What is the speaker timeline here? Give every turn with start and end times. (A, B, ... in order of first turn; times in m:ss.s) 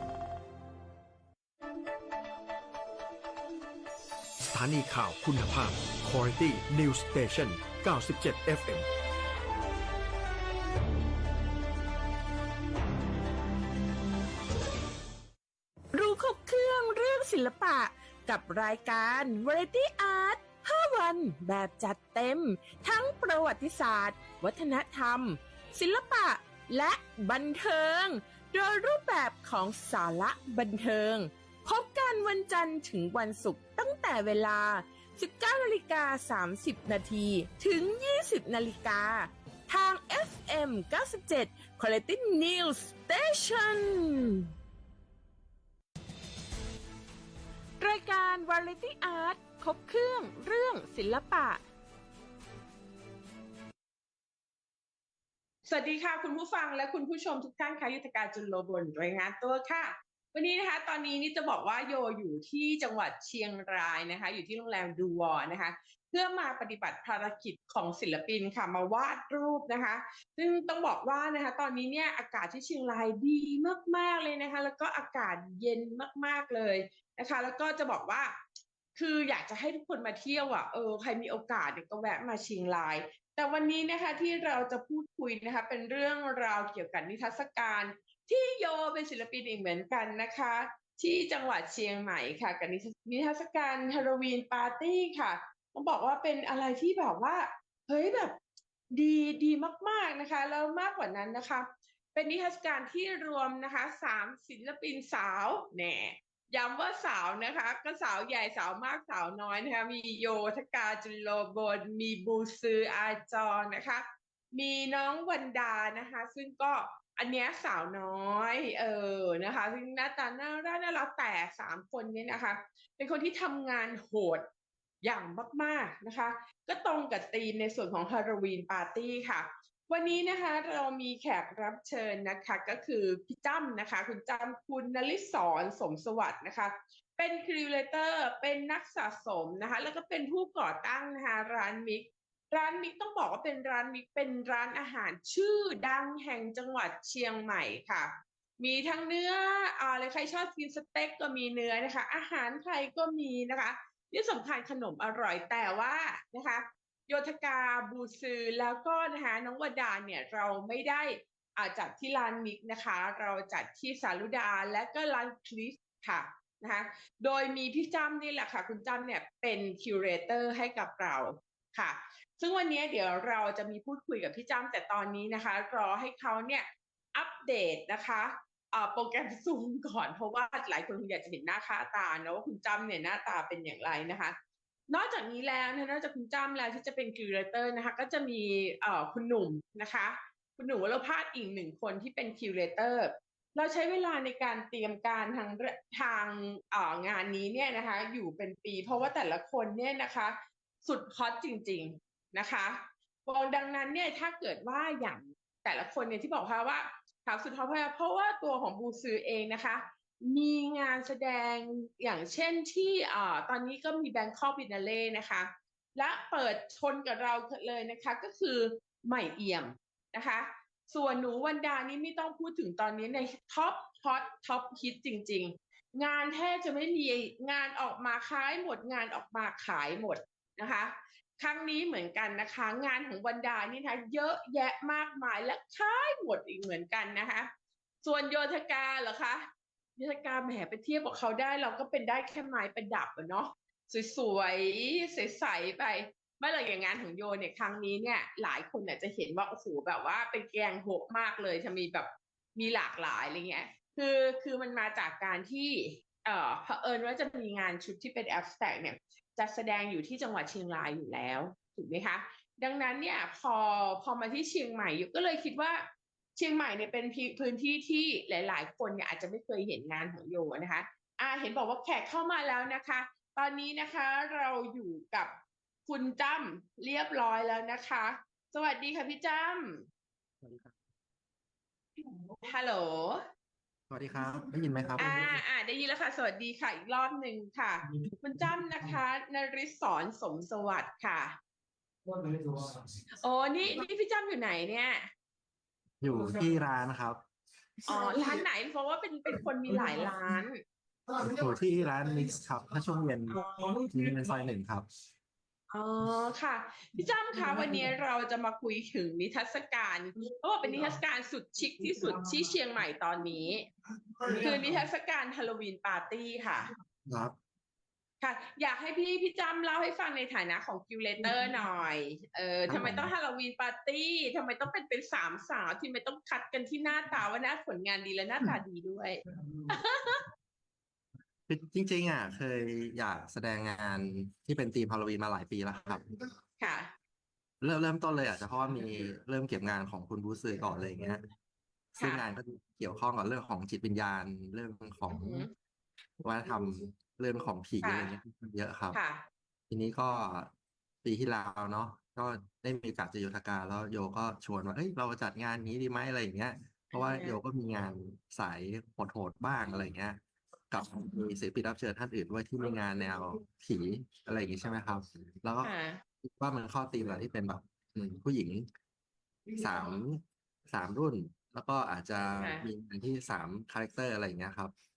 0:04.5-0:08.9 A
0:15.9-0:44.5 B
0:47.8-0:51.6 B
0:55.7-1:18.4 B
1:19.0-1:38.4 B
1:38.9-2:04.5 B
2:05.0-3:04.4 B
3:04.9-3:57.5 B
3:58.0-4:25.8 B
4:26.4-4:39.8 B
4:40.4-4:40.8 C
4:42.4-4:43.2 B
4:43.9-4:45.4 C
4:45.0-4:51.4 B
4:47.9-4:49.0 C
4:52.2-4:52.7 C
4:53.2-4:55.1 B
4:56.0-4:57.2 C
4:57.9-5:00.6 B
5:01.2-5:04.9 C
5:03.3-5:03.6 B
5:05.7-5:13.7 B
5:14.2-5:16.7 B
5:17.1-5:17.4 C
5:18.2-5:30.2 B
5:22.7-5:23.1 C
5:31.5-5:36.1 C
5:36.6-5:36.9 B
5:37.6-5:41.2 C
5:41.9-5:45.5 C
5:42.0-5:42.2 B
5:45.1-5:45.5 B
5:46.2-5:49.0 C
5:47.8-5:48.1 B
5:48.9-5:49.3 B
5:49.7-5:50.5 C
5:51.0-6:00.2 C
5:56.9-5:57.4 B
6:00.7-6:08.7 C
6:05.6-6:06.0 B
6:09.5-6:14.7 C
6:12.4-6:12.7 B